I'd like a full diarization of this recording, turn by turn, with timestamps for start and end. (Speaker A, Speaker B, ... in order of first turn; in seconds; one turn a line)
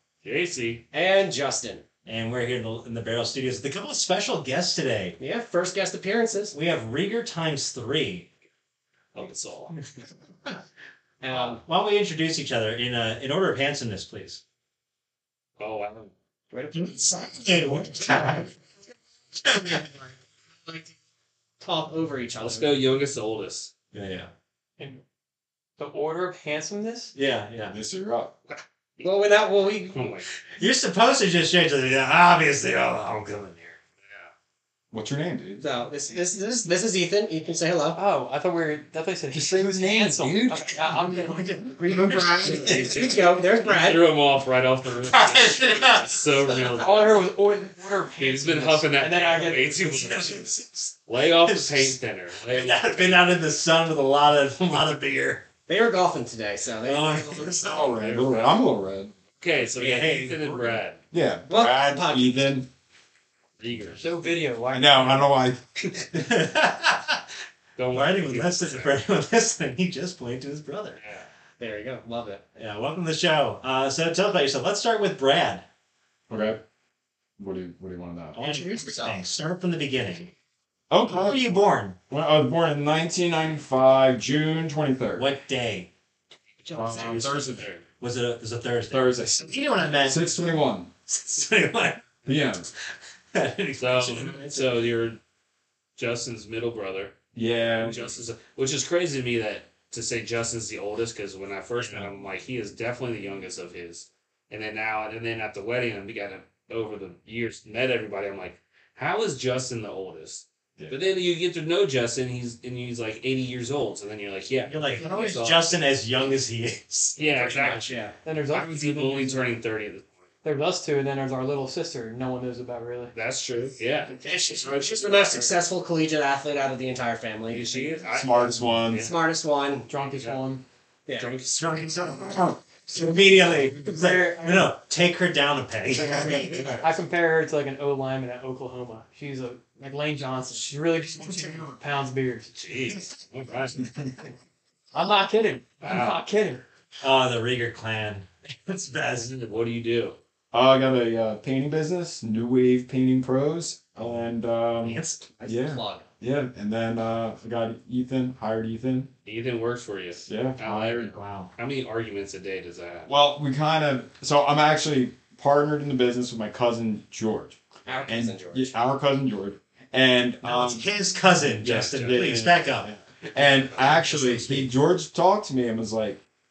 Speaker A: 0.2-0.8
Speaker B: 0.9-1.9
Speaker C: 2.0-5.2
Speaker B: 5.2-6.6
Speaker C: 6.5-8.3
Speaker A: 9.1-9.8
Speaker B: 11.2-11.6
Speaker C: 11.3-14.4
Speaker A: 15.6-16.1
Speaker B: 16.5-17.0
Speaker C: 16.7-18.5
Speaker C: 19.5-19.9
Speaker B: 21.6-22.7
Speaker A: 22.4-23.7
Speaker C: 23.9-24.3
Speaker D: 25.8-27.1
Speaker C: 27.1-27.8
Speaker E: 27.7-28.3
Speaker B: 29.0-30.0
Speaker A: 29.9-30.3
Speaker C: 30.6-33.8
Speaker A: 34.0-34.3
Speaker E: 34.9-35.6
Speaker B: 35.6-38.0
Speaker D: 37.9-41.5
Speaker E: 39.3-40.8
Speaker B: 41.8-44.0
Speaker E: 41.8-43.0
Speaker A: 42.5-47.2
Speaker C: 45.4-46.2
Speaker D: 46.8-50.3
Speaker A: 48.2-53.3
Speaker C: 50.1-50.9
Speaker C: 51.4-55.5
Speaker B: 55.7-57.7
Speaker C: 56.8-57.9
Speaker E: 57.6-59.1
Speaker A: 57.9-58.5
Speaker A: 59.4-61.0
Speaker C: 59.8-60.8
Speaker E: 61.1-62.7
Speaker B: 61.5-62.5
Speaker A: 63.6-64.0
Speaker D: 64.0-65.3
Speaker E: 64.7-65.9
Speaker C: 66.1-67.2
Speaker A: 67.8-68.9
Speaker C: 67.9-71.0
Speaker A: 71.0-71.3
Speaker B: 71.6-72.4
Speaker C: 72.6-75.6
Speaker E: 76.3-76.6
Speaker E: 77.4-78.4
Speaker C: 78.3-80.3
Speaker B: 78.4-79.2
Speaker E: 80.9-81.6
Speaker C: 81.1-82.0
Speaker E: 82.1-85.3
Speaker C: 85.2-85.9
Speaker B: 86.6-87.4
Speaker E: 86.8-87.7
Speaker A: 86.9-87.8
Speaker C: 88.0-90.2
Speaker E: 88.9-90.9
Speaker C: 91.1-92.2
Speaker E: 92.3-92.7
Speaker C: 93.3-94.4
Speaker A: 93.8-95.2
Speaker B: 94.1-94.9
Speaker A: 96.0-97.2
Speaker E: 97.3-98.1
Speaker A: 97.7-115.7
Speaker C: 101.8-102.1
Speaker C: 114.7-118.2
Speaker A: 117.2-117.9
Speaker D: 118.2-119.5
Speaker A: 118.5-120.1
Speaker D: 120.4-123.1
Speaker A: 123.1-124.2
Speaker B: 124.2-128.1
Speaker A: 125.2-125.5
Speaker A: 127.5-129.2
Speaker E: 128.1-129.1
Speaker B: 128.9-129.9
Speaker D: 129.9-130.6
Speaker A: 130.0-130.4
Speaker B: 131.1-131.4
Speaker C: 131.4-136.8
Speaker D: 133.8-134.7
Speaker E: 136.2-136.8
Speaker D: 136.8-142.5
Speaker A: 142.5-143.8
Speaker D: 144.9-146.7
Speaker A: 145.8-146.2
Speaker C: 147.0-149.3
Speaker A: 149.2-150.2
Speaker E: 150.5-159.1
Speaker C: 154.0-154.3
Speaker C: 154.8-155.3
Speaker B: 155.4-156.0
Speaker A: 159.3-163.1
Speaker E: 160.3-161.1
Speaker C: 161.1-161.5
Speaker E: 163.1-170.9
Speaker B: 167.9-168.8
Speaker C: 170.4-173.0
Speaker E: 171.6-172.7
Speaker A: 171.7-172.5
Speaker E: 173.3-176.2
Speaker A: 173.4-174.0
Speaker C: 173.8-174.7